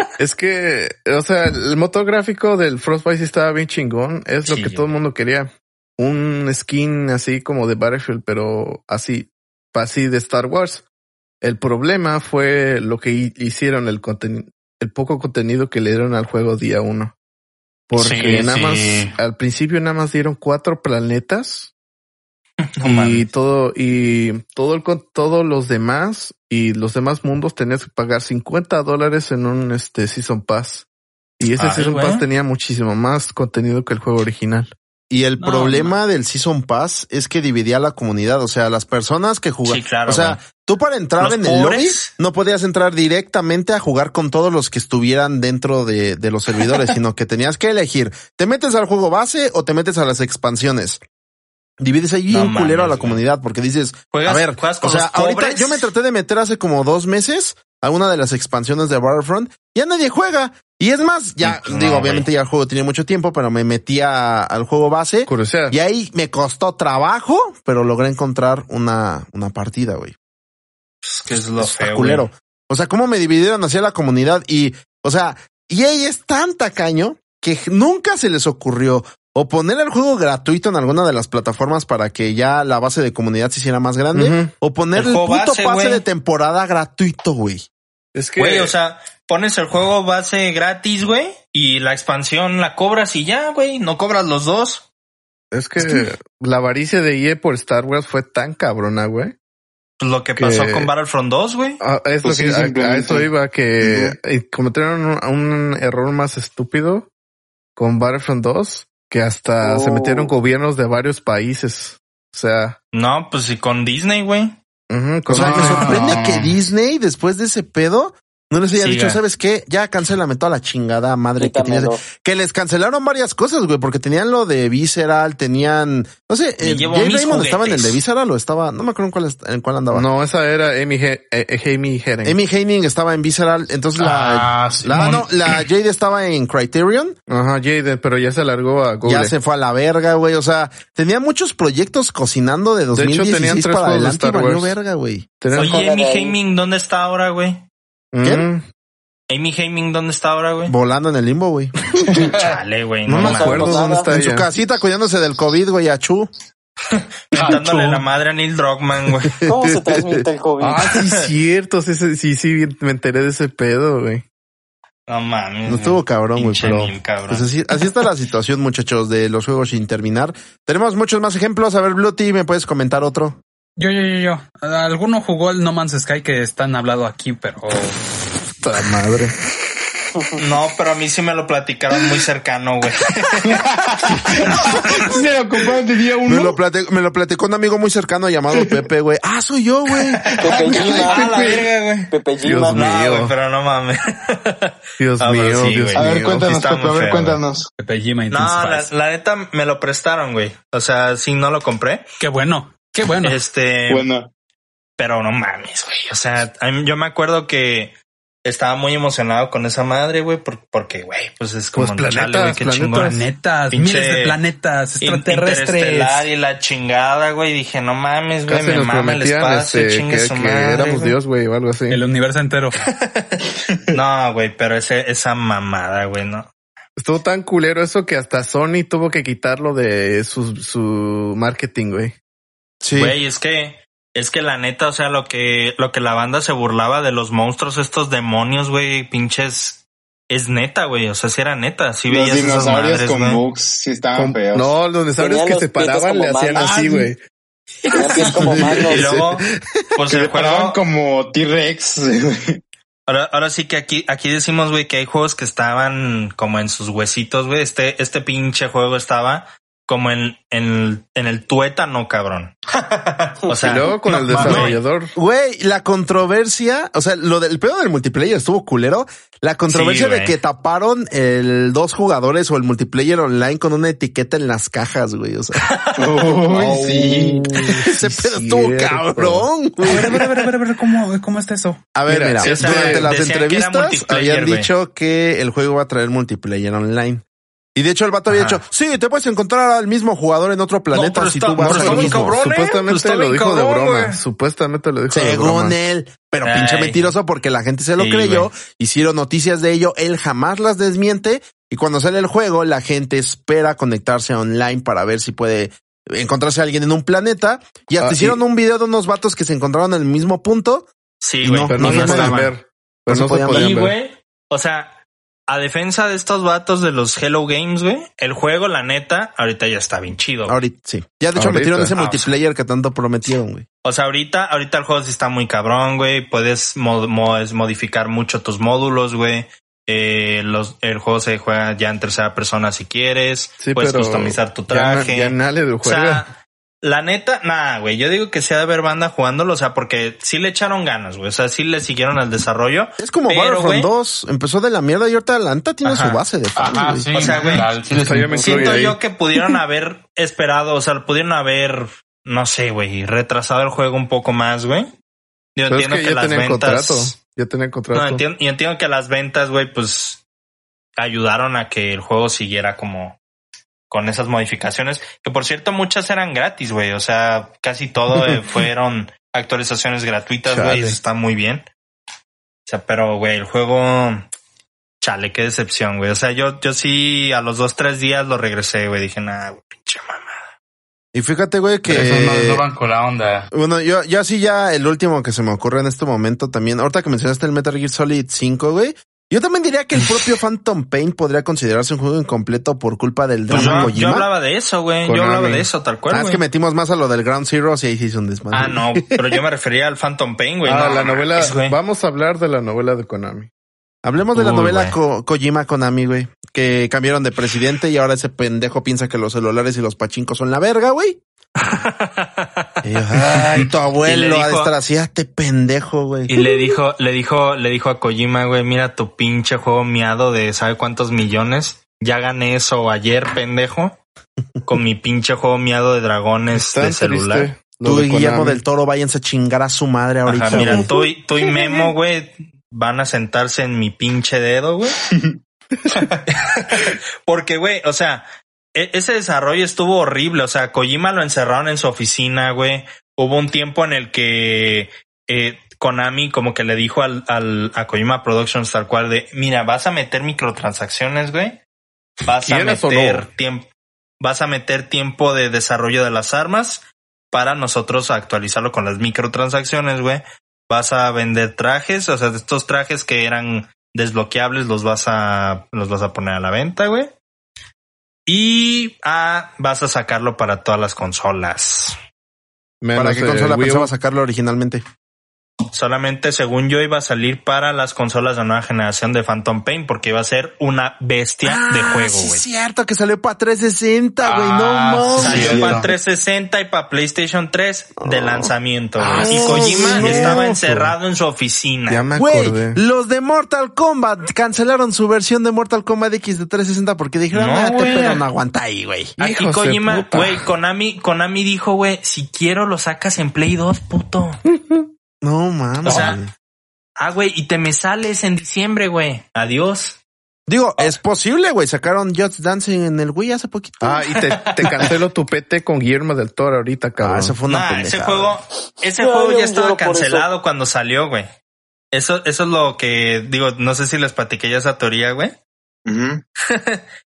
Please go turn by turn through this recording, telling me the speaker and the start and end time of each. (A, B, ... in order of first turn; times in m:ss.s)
0:00.2-0:10.8 A
0:04.5-0:04.9 B
0:11.4-0:17.1 A
0:17.9-0:21.7 A
0:18.0-0:19.2 C
0:22.6-0:23.3 B
0:22.8-0:30.9 A
0:31.4-0:34.7 A
0:31.6-0:32.3 B
0:35.1-0:51.0 D
0:35.4-0:35.9 E
0:39.6-0:40.4 B
0:41.2-0:42.1 B
0:51.8-1:10.1 D
0:52.3-0:53.2 B
0:54.1-0:55.8 B
1:01.4-1:02.3 B
1:05.3-1:05.8 A
1:11.0-1:12.3 B
1:11.6-1:27.7 D
1:24.1-1:24.5 A
1:24.9-1:26.0 B
1:28.1-1:28.7 A
1:28.4-1:34.8 B
1:35.5-1:39.4 A
1:40.0-1:41.8 B
1:40.4-1:40.9 A
1:41.8-1:47.1 A
1:42.2-1:43.3 F
1:43.8-1:44.1 F
1:47.8-1:52.8 A
1:49.6-1:50.3 F
1:52.9-1:54.6 B
1:54.9-1:56.2 A
1:55.3-2:10.1 D
1:55.3-1:56.6 C
1:58.8-1:59.2 B
2:01.4-2:02.0 G
2:06.6-2:08.0 B
2:09.9-2:12.4 A
2:12.2-2:17.2 D
2:14.0-2:15.6 C
2:17.3-2:19.3 A
2:19.0-2:25.3 D
2:22.9-2:24.8 A
2:25.4-2:25.9 A
2:25.5-2:26.4 G
2:25.5-2:27.6 B
2:28.1-2:28.6 A
2:28.2-2:28.5 D
2:29.3-2:30.8 B
2:30.7-2:31.8 D
2:32.2-2:32.6 C
2:32.2-2:33.8 B
2:33.1-2:36.3 D
2:33.1-2:34.5 A
2:33.2-2:34.1 G
2:36.9-2:39.4 B
2:37.3-2:38.0 C
2:39.5-2:40.9 G
2:40.6-2:44.2 A
2:45.1-2:47.5 B
2:45.7-2:53.4 D
2:53.8-2:58.0 E
2:58.6-2:59.3 A
3:00.4-3:05.0 B
3:03.4-3:06.6 F
3:06.2-3:10.2 D
3:10.2-3:12.1 B
3:10.4-3:11.7 F
3:10.4-3:12.8 G
3:12.4-3:13.3 A
3:12.7-3:17.4 B
3:15.0-3:16.6 A
3:16.0-3:17.7 F
3:17.8-3:18.9 E
3:18.3-3:22.1 B
3:22.2-3:23.4 E
3:23.2-3:24.1 B
3:23.9-3:24.3 F
3:25.0-3:34.4 B
3:31.8-3:33.2 A
3:32.9-3:36.3 E
3:35.0-3:41.2 B
3:38.5-3:42.0 A
3:41.9-3:42.8 E
3:43.0-3:46.5 B
3:47.0-3:52.1 A
3:52.8-3:53.2 D
3:53.0-4:03.4 B
4:02.1-4:04.8 F
4:04.1-4:07.2 A
4:05.2-4:06.8 G
4:06.6-4:07.1 F
4:07.8-4:10.8 B
4:07.9-4:09.2 G
4:08.2-4:09.6 A
4:10.1-4:12.6 F
4:13.1-4:22.5 B
4:22.7-4:24.8 C
4:23.5-4:24.8 B
4:23.6-4:25.1 A
4:25.1-4:35.7 D
4:29.7-4:30.4 B
4:35.6-4:36.2 B
4:36.0-4:37.4 F
4:36.5-4:39.5 A
4:37.8-4:40.3 D
4:39.8-4:41.9 E
4:42.0-4:47.2 D
4:42.0-4:43.1 A
4:42.4-4:44.7 B
4:47.8-4:52.4 D
4:48.3-4:48.6 B
4:50.9-4:54.2 B
4:51.6-4:55.8 A
4:55.1-5:10.9 D
4:56.4-4:57.1 B
4:58.0-4:58.5 B
5:08.0-5:08.4 A
5:11.2-5:12.5 B
5:11.4-5:12.5 D
5:11.6-5:14.0 A
5:13.1-5:13.7 D
5:13.5-5:20.6 B
5:20.5-5:23.6 D
5:21.4-5:22.0 A
5:22.0-5:22.3 B
5:23.8-5:43.9 B
5:33.6-5:36.3 A
5:43.0-5:47.6 D
5:45.8-5:46.2 B
5:46.6-5:48.7 C
5:47.1-5:47.7 B
5:47.9-5:49.0 A
5:48.4-5:54.9 B
5:55.6-5:57.2 B
5:55.7-5:58.2 A
5:57.9-6:00.2 B
6:01.0-6:03.2 B
6:03.9-6:11.7 B
6:10.5-6:11.0 A
6:12.7-6:14.3 B
6:15.0-6:20.5 B
6:21.1-6:22.7 D
6:21.9-6:23.5 C
6:23.5-6:34.3 D
6:33.5-6:36.4 B
6:33.5-6:34.0 A
6:35.0-6:35.7 A
6:36.1-6:39.4 D
6:38.5-6:41.8 B
6:40.7-6:43.5 A
6:44.0-6:51.2 D
6:44.4-6:45.0 B
6:51.6-6:53.5 B
6:52.8-6:56.4 D
6:54.0-6:54.7 B
6:56.3-7:04.0 B
7:04.6-7:07.6 B
7:06.5-7:08.6 A
7:07.8-7:10.9 D
7:10.3-7:15.0 B
7:10.5-7:10.9 A
7:16.3-7:31.6 B
7:32.3-7:33.7 B
7:32.3-7:33.3 A
7:34.2-7:47.1 B
7:48.3-7:52.0 B
7:52.8-7:53.9 A
7:53.0-7:54.8 D
7:55.7-8:02.4 B
8:01.4-8:05.8 D
8:04.2-8:05.9 C
8:05.2-8:12.1 B
8:05.4-8:05.9 F
8:08.0-8:10.9 D
8:09.1-8:10.7 A
8:11.9-8:12.8 A
8:12.1-8:19.2 D
8:17.3-8:18.2 B
8:19.2-8:20.4 A
8:19.2-8:24.4 B
8:25.2-8:26.3 D
8:25.8-8:26.2 B
8:25.9-8:26.1 F
8:27.0-8:30.0 B
8:30.5-8:34.0 D
8:33.8-8:37.4 A
8:34.2-8:35.0 B
8:37.0-8:38.4 D
8:37.5-8:41.3 B
8:39.0-8:40.3 G
8:41.9-8:45.4 B
8:45.9-8:46.2 F
8:46.5-8:46.8 B